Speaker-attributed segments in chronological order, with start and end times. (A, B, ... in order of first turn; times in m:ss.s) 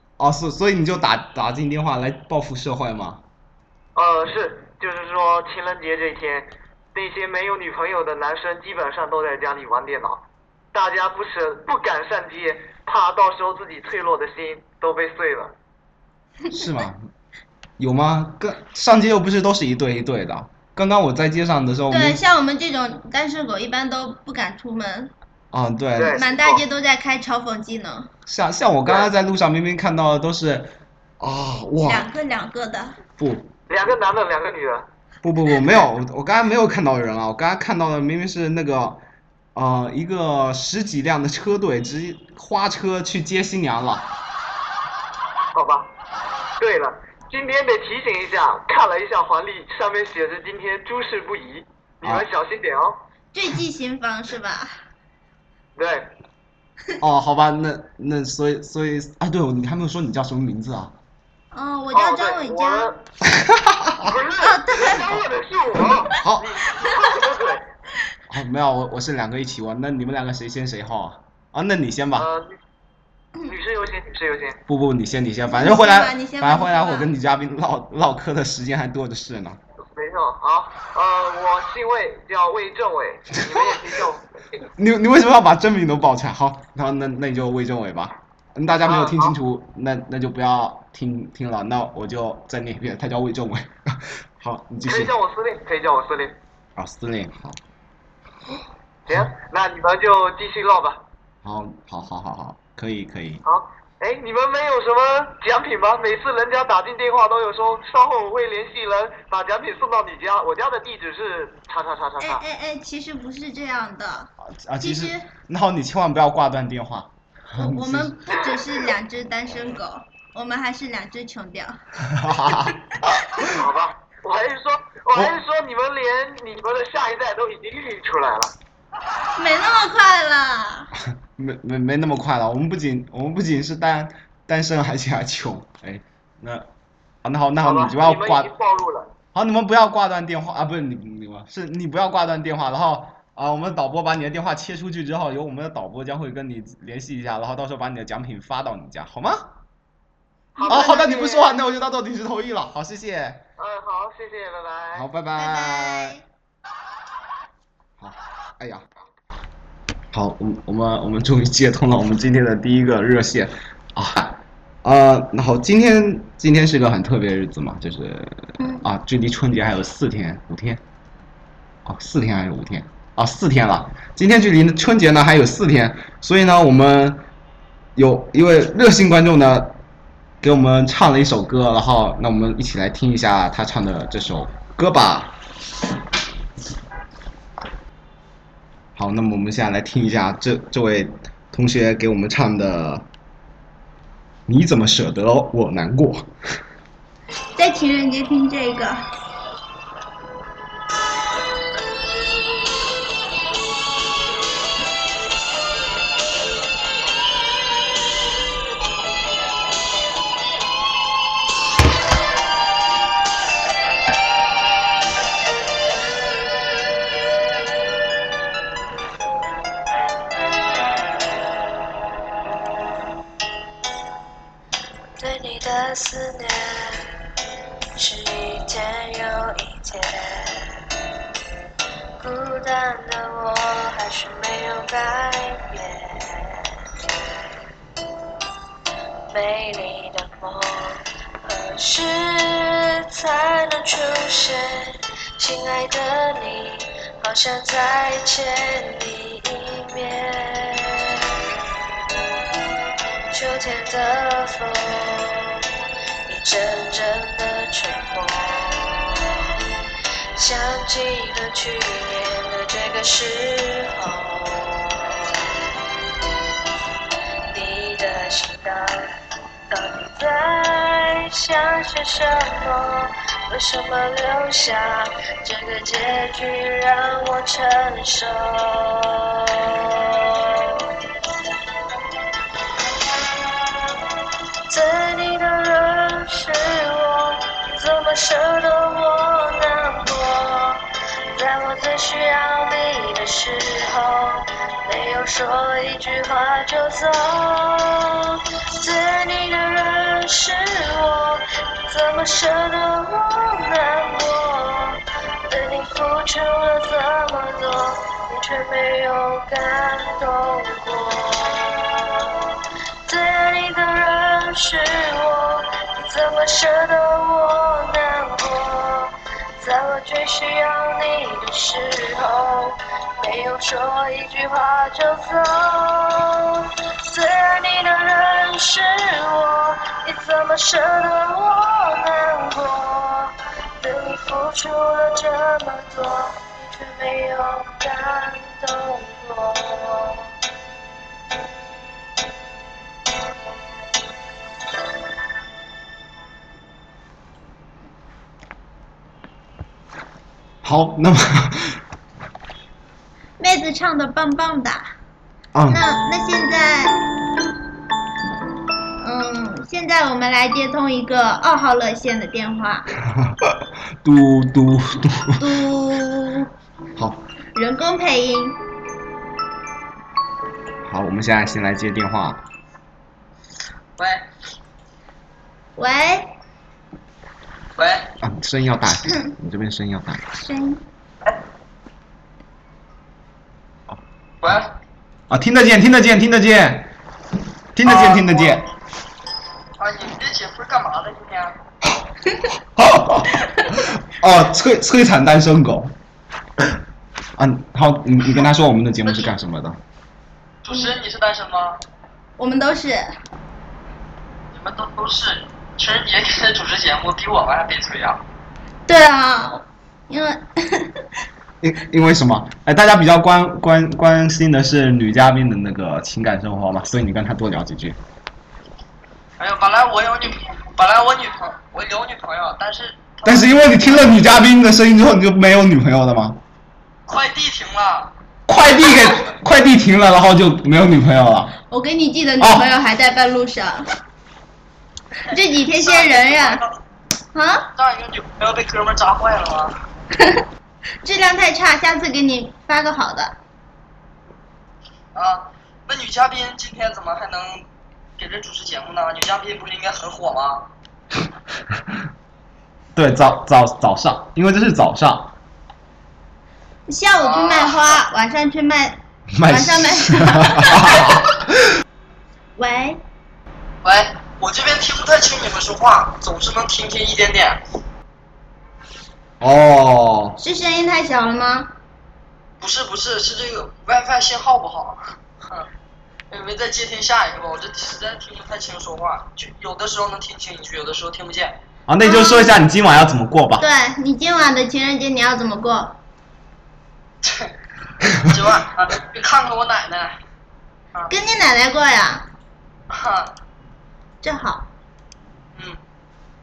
0:00.2-0:03.2 A
0:03.9-0:15.5 B
0:16.5-0:17.1 A
0:17.8-0:22.2 A
0:21.9-0:25.1 C
0:25.5-0:26.2 A
0:26.0-0:26.6 B
0:26.1-0:28.1 C
0:28.3-0:32.1 A
0:31.8-0:33.0 C
0:33.2-0:33.5 A
0:33.7-0:34.9 B
0:35.2-0:39.0 A
0:39.5-0:44.1 A
0:45.5-0:45.9 B
0:46.6-0:53.0 B
0:53.3-0:54.8 C
0:55.8-0:56.1 B
0:57.0-1:00.9 A
1:01.5-1:02.9 C
1:01.9-1:03.0 B
1:03.3-1:04.1 A
1:04.0-1:07.6 B
1:04.4-1:05.2 C
1:05.8-1:06.6 A
1:08.3-1:12.3 A
1:12.2-1:12.5 B
1:13.4-1:14.6 B
1:14.7-1:19.6 A
1:15.5-1:17.1 C
1:19.9-1:24.6 B
1:23.5-1:23.7 A
1:24.8-1:35.1 A
1:28.8-1:29.3 B
1:34.8-1:36.4 B
1:36.8-1:37.6 A
1:39.1-1:41.0 B
1:41.4-1:43.4 A
1:43.4-1:52.4 B
1:52.2-1:55.3 C
1:54.4-1:58.3 A
1:57.6-2:01.8 C
2:02.1-2:02.8 A
2:03.5-2:08.5 B
2:09.4-2:10.9 C
2:11.4-2:16.7 A
2:17.2-2:18.5 A
2:17.6-2:19.1 B
2:19.3-2:29.5 A
2:30.6-2:31.3 B
2:30.6-2:31.1 C
2:30.7-2:33.4 A
2:33.6-2:35.0 B
2:34.9-2:36.2 A
2:35.4-2:36.2 C
2:38.0-2:38.8 A
2:40.1-2:50.8 A
2:51.8-2:57.2 A
2:58.0-2:59.8 A
3:00.4-3:05.3 A
3:09.0-3:13.0 A
3:14.5-3:16.3 A
3:17.5-3:19.1 C
3:45.2-3:47.1 D
3:48.0-3:50.8 D
3:52.2-3:56.8 D
3:59.3-4:11.3 D
4:13.3-4:15.6 D
4:16.2-4:19.2 D
4:20.3-4:25.4 D
4:27.5-4:29.2 D
4:29.7-4:40.9 D
4:44.7-5:40.3 D
5:50.6-5:51.8 A
5:53.4-5:54.9 C
5:55.5-5:55.8 A
5:55.7-5:57.0 C
5:59.0-6:02.9 C
6:03.0-6:05.4 A
6:05.4-6:06.5 C
6:07.0-6:07.2 A
6:07.5-6:08.6 C
6:10.8-6:12.4 A
6:14.0-6:14.2 E
6:15.8-6:16.3 C
6:17.8-6:18.1 E
6:18.2-6:20.2 A
6:20.4-6:20.8 C
6:24.4-6:24.7 E
6:25.3-6:26.9 A
6:27.7-6:28.6 A
6:27.8-6:28.6 E
6:29.8-6:31.6 E
6:32.7-6:35.9 A
6:37.4-6:39.8 A
6:40.6-6:41.8 E
6:42.4-6:43.1 C
6:44.5-6:48.2 E
6:48.9-6:50.9 C
6:51.6-6:58.0 A
6:59.4-7:03.5 E
7:03.2-7:06.4 A
7:07.1-7:08.1 E
7:08.5-7:11.5 A
7:11.7-7:13.9 C
7:12.4-7:12.7 A
7:15.3-7:16.6 C
7:15.7-7:16.8 E
7:17.3-7:17.7 C
7:17.7-7:19.8 E
7:21.0-7:23.4 C
7:25.1-7:30.7 E
7:32.9-7:35.3 A
7:36.9-7:41.0 C
7:37.2-7:38.0 E
7:39.4-7:41.3 A
7:42.6-7:43.0 C
7:43.8-7:47.6 E
7:49.4-7:50.4 A
7:50.4-7:51.7 C
7:52.6-7:55.7 E
7:56.3-8:01.6 E
8:01.9-8:03.6 A
8:02.0-8:02.6 C
8:03.6-8:06.0 C
8:07.2-8:07.5 E
8:08.3-8:10.2 E
8:11.1-8:12.3 C
8:12.9-8:13.3 E
8:14.2-8:14.6 C